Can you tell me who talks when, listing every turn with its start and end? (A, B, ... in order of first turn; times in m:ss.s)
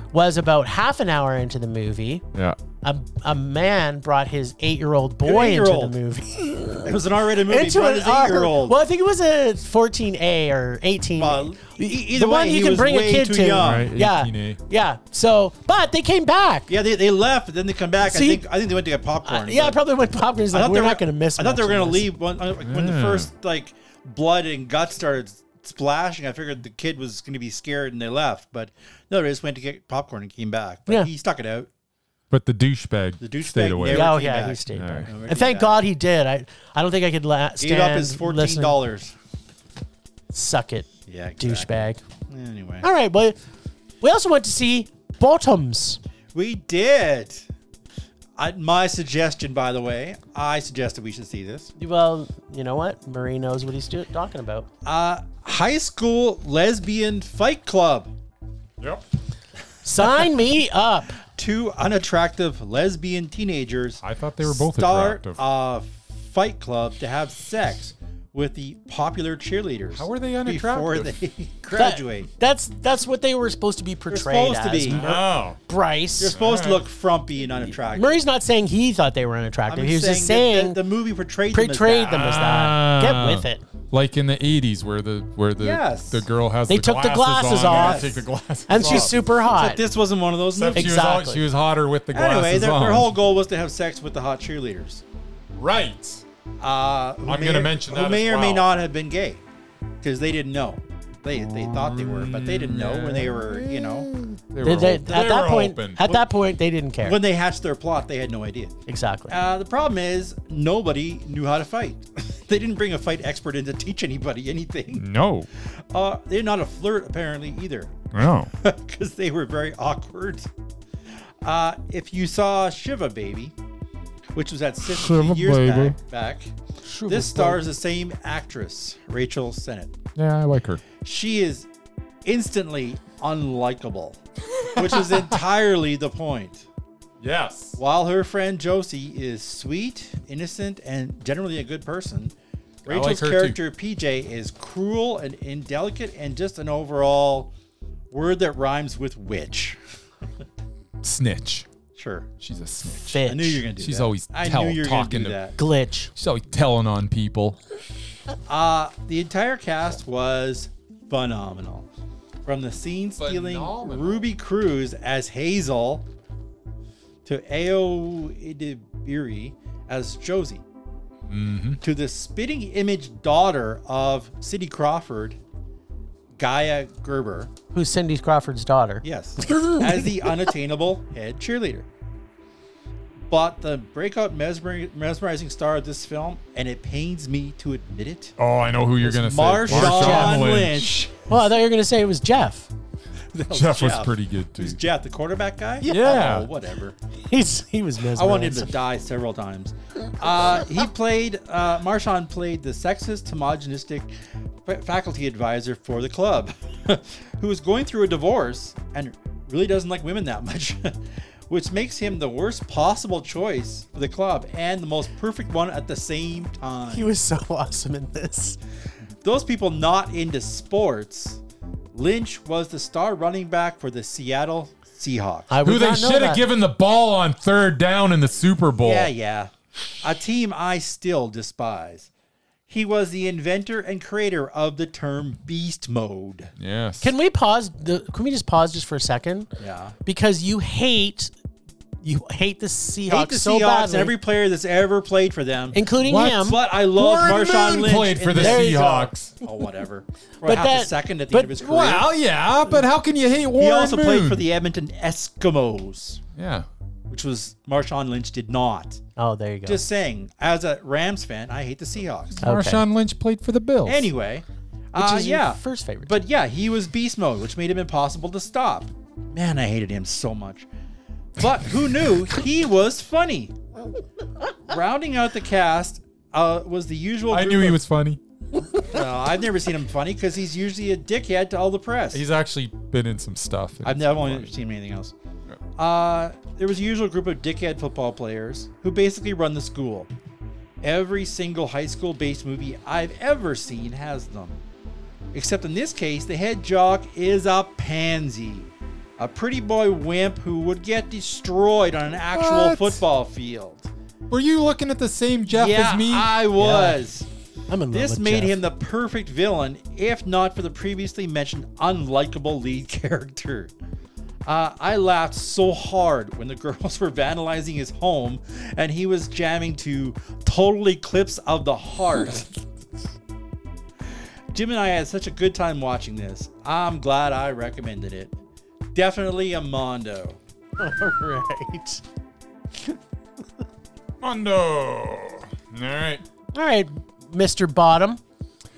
0:00.1-0:02.2 A
0:02.8-0:16.7 A
0:05.2-0:06.0 B
0:06.8-0:08.8 B
0:11.2-0:13.9 B
0:13.6-0:14.6 C
0:16.7-0:19.8 B
0:18.0-0:18.4 A
0:19.2-0:22.1 A
0:20.5-0:31.7 B
0:22.6-0:23.3 C
0:32.3-0:34.1 C
0:33.2-0:35.8 B
0:33.9-0:38.8 A
0:34.7-0:35.1 C
0:37.6-0:39.1 B
0:40.3-0:42.0 A
0:41.0-0:42.9 B
0:42.8-0:43.4 A
0:44.0-0:46.0 A
0:46.3-0:47.4 B
0:48.4-0:51.7 B
0:51.8-0:54.7 A
0:54.8-0:58.1 B
0:59.8-1:01.2 A
1:01.3-1:12.3 B
1:04.0-1:05.4 C
1:09.9-1:11.2 C
1:11.7-1:16.4 A
1:14.1-1:15.1 B
1:14.8-1:15.6 C
1:16.2-1:18.2 B
1:16.3-1:16.8 C
1:17.9-1:20.8 A
1:19.7-1:22.4 B
1:21.5-1:23.6 A
1:22.0-1:29.2 C
1:25.6-1:26.2 B
1:26.7-1:29.8 A
1:27.5-1:28.2 B
1:28.8-1:31.2 B
1:30.5-1:33.1 C
1:30.7-1:31.4 A
1:32.1-1:35.0 B
1:35.6-1:36.2 C
1:36.6-1:39.4 B
1:37.2-1:38.7 C
1:40.0-1:44.1 B
1:41.4-1:46.2 C
1:44.6-1:47.2 A
1:47.0-1:48.7 B
1:48.9-1:49.4 A
1:49.3-1:55.0 B
1:54.9-1:55.5 C
1:55.9-1:57.9 B
1:58.1-1:58.5 C
1:58.6-2:00.5 B
2:01.4-2:03.5 B
2:04.3-2:06.5 B
2:04.9-2:06.0 C
2:07.0-2:07.6 C
2:07.1-2:10.0 B
2:10.2-2:10.8 C
2:11.0-2:11.7 B
2:12.2-2:14.2 B
2:14.6-2:15.2 C
2:14.7-2:16.6 B
2:17.2-2:17.8 C
2:17.8-2:22.3 B
2:22.8-2:27.5 B
2:22.9-2:23.6 C
2:28.1-2:29.8 B
2:31.0-2:31.7 C
2:31.9-2:32.3 B
2:32.4-2:33.2 C
2:33.1-2:33.6 A
2:33.2-2:35.6 B
2:33.8-2:35.4 C
2:35.6-2:36.1 A
2:36.2-2:37.6 C
2:38.5-2:41.9 B
2:42.4-2:46.1 B
2:43.2-2:44.3 C
2:47.2-2:50.6 B
2:51.3-2:51.8 C
2:51.8-2:55.4 B
2:56.4-2:57.5 B
2:57.7-2:59.8 A
2:59.0-3:01.9 B
3:03.3-3:08.3 B
3:08.4-3:11.0 C
3:09.0-3:11.2 B
3:09.7-3:10.4 A
3:11.3-3:12.7 A
3:13.3-3:16.9 B
3:13.5-3:14.8 C
3:15.8-3:16.3 A
3:15.8-3:16.5 C
3:17.3-3:18.7 A
3:18.1-3:24.1 B
3:24.6-3:37.1 B
3:36.9-3:38.6 A
3:39.2-3:41.4 B
3:41.9-3:45.5 B
3:45.5-3:46.4 A
3:45.6-3:49.1 C
3:48.8-3:52.1 B
3:52.7-3:56.5 B
3:56.6-3:57.1 C
3:57.0-3:59.5 A
3:59.6-3:59.9 B
4:00.0-4:01.3 A
4:02.0-4:04.1 A
4:03.1-4:12.1 B
4:05.7-4:06.6 A
4:06.0-4:09.3 C
4:08.4-4:09.0 A
4:10.4-4:11.5 A
4:11.5-4:14.4 C
4:13.6-4:16.2 B
4:16.4-4:16.6 C
4:17.1-4:19.0 B
4:19.2-4:19.8 A
4:19.6-4:22.4 B
4:22.4-4:24.1 C
4:22.4-4:22.8 A
4:23.8-4:30.7 B
4:25.0-4:26.2 A
4:31.4-4:33.6 B
4:34.7-4:37.8 B
4:37.3-4:38.2 C
4:38.7-4:42.2 B
4:42.1-4:44.5 C
4:43.8-4:45.1 B
4:45.8-4:50.1 B
4:50.8-4:54.6 B
4:55.3-5:03.9 B
5:02.3-5:03.0 C
5:04.3-5:06.3 C
5:05.5-5:07.3 B
5:06.6-5:07.0 A
5:07.7-5:08.6 A
5:07.9-5:13.7 B
5:14.4-5:22.5 B
5:24.5-5:28.3 B
5:28.9-5:30.4 B
5:30.8-5:32.0 A
5:34.2-5:36.2 C
5:36.5-5:38.2 A